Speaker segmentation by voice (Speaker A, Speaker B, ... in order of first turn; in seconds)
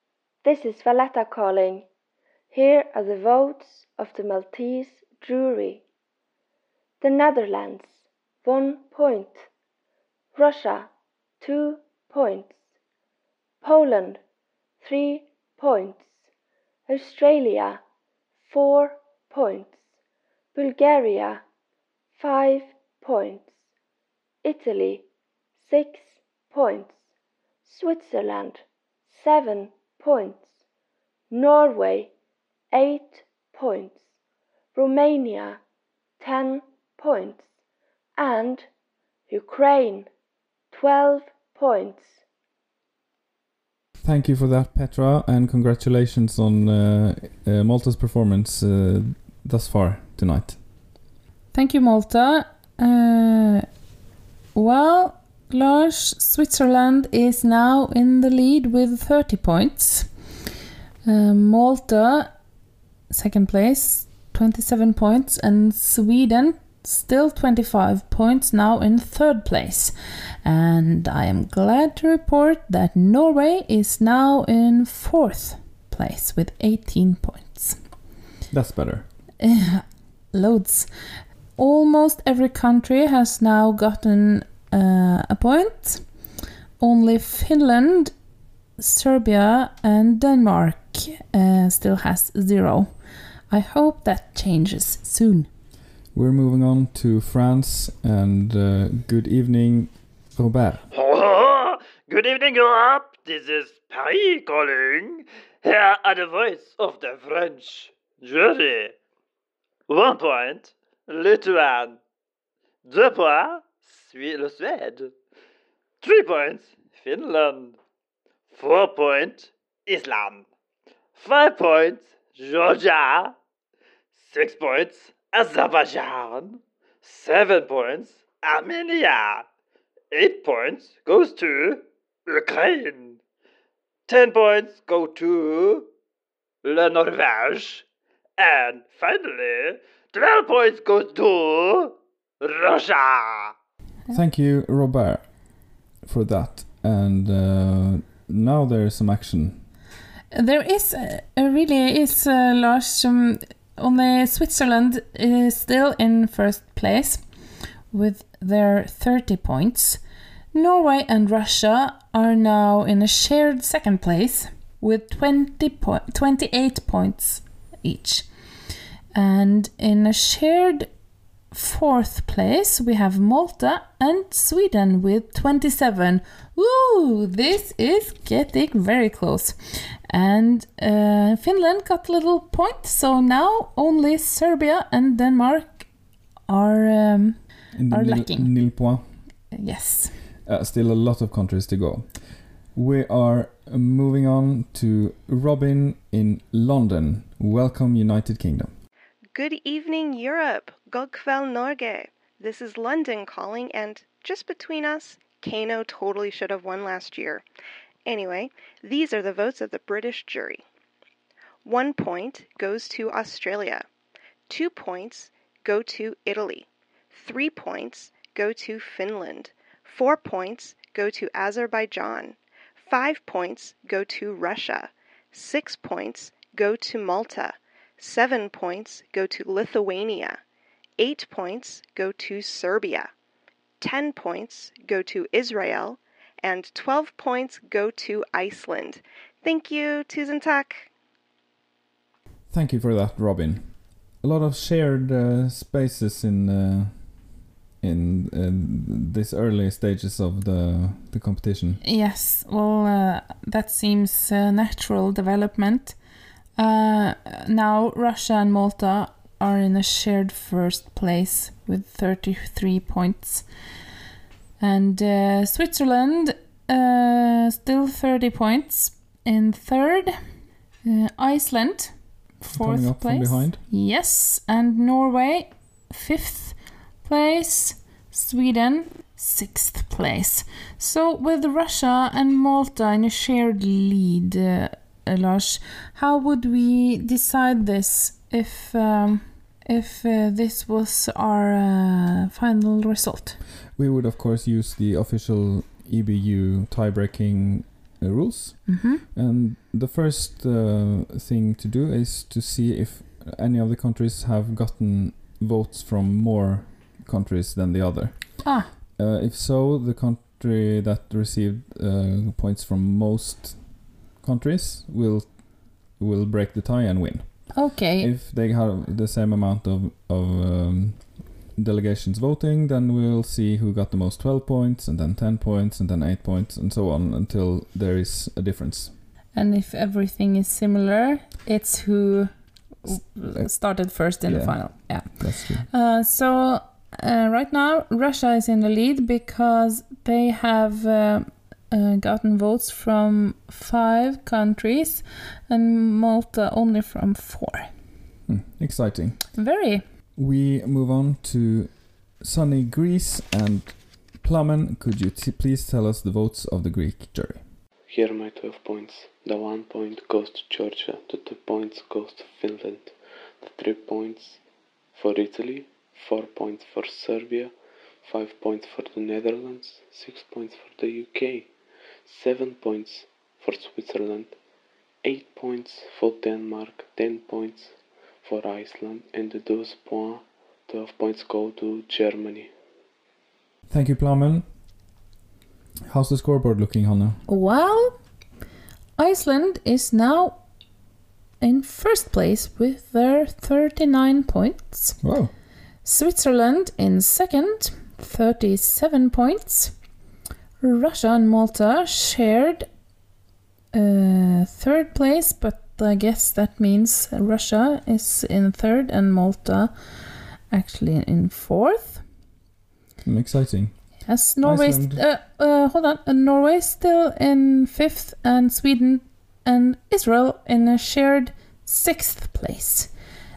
Speaker A: 0.4-1.9, 2.5-5.8, 7.0-9.5, 10.3-10.9, 11.4-12.6, 13.6-14.2, 14.8-16.2, 16.9-17.8, 18.5-19.8, 20.5-21.4, 22.2-23.6, 24.4-25.0, 25.6-27.0, 27.6-30.5, 31.3-32.1, 32.7-34.0, 34.7-35.6, 36.2-37.5, 38.1-38.7, 39.3-40.1, 40.7-42.2
Speaker B: 44.0-50.6, 78.5-79.0, 96.1-100.8, 144.1-145.3, 146.0-149.7, 187.7-189.0, 190.4-198.7, 242.5-251.8, 272.5-273.6, 293.8-328.9, 334.2-335.7, 348.3-349.2, 350.1-357.4, 383.7-384.4, 385.9-387.2, 395.0-395.3, 413.0-413.8, 414.4-415.0
Speaker C: 51.5-53.7, 54.5-60.1, 61.0-62.3, 63.1-77.8, 79.4-80.9, 81.6-86.0, 86.8-88.1, 88.8-92.9, 93.5-95.5, 150.3-157.2, 157.9-160.0, 160.5-168.3, 169.1-170.9, 171.5-185.9, 186.5-187.4, 187.9-188.5, 189.5-190.1, 251.8-256.0, 256.6-263.4, 264.6-270.2, 270.8-293.4, 298.7-299.0, 308.4-308.7, 317.5-318.1, 329.3-347.7, 349.4-349.8, 387.3-388.0, 389.0-390.4, 391.4-395.0, 395.8-399.7, 400.6-402.7, 403.7-409.7, 410.5-412.0, 414.1-422.9
Speaker D: 100.9-108.9, 109.9-112.0, 112.8-115.1, 116.0-117.8, 118.5-120.5, 121.2-123.3, 124.2-129.4, 130.1-133.2, 134.1-135.9, 136.6-137.8, 138.4-143.5
Speaker E: 199.3-207.4, 208.1-210.6, 211.6-213.8, 214.5-230.4, 231.0-233.1, 233.8-240.9
Speaker F: 357.9-364.4, 364.9-371.5, 372.0-374.4, 375.0-382.5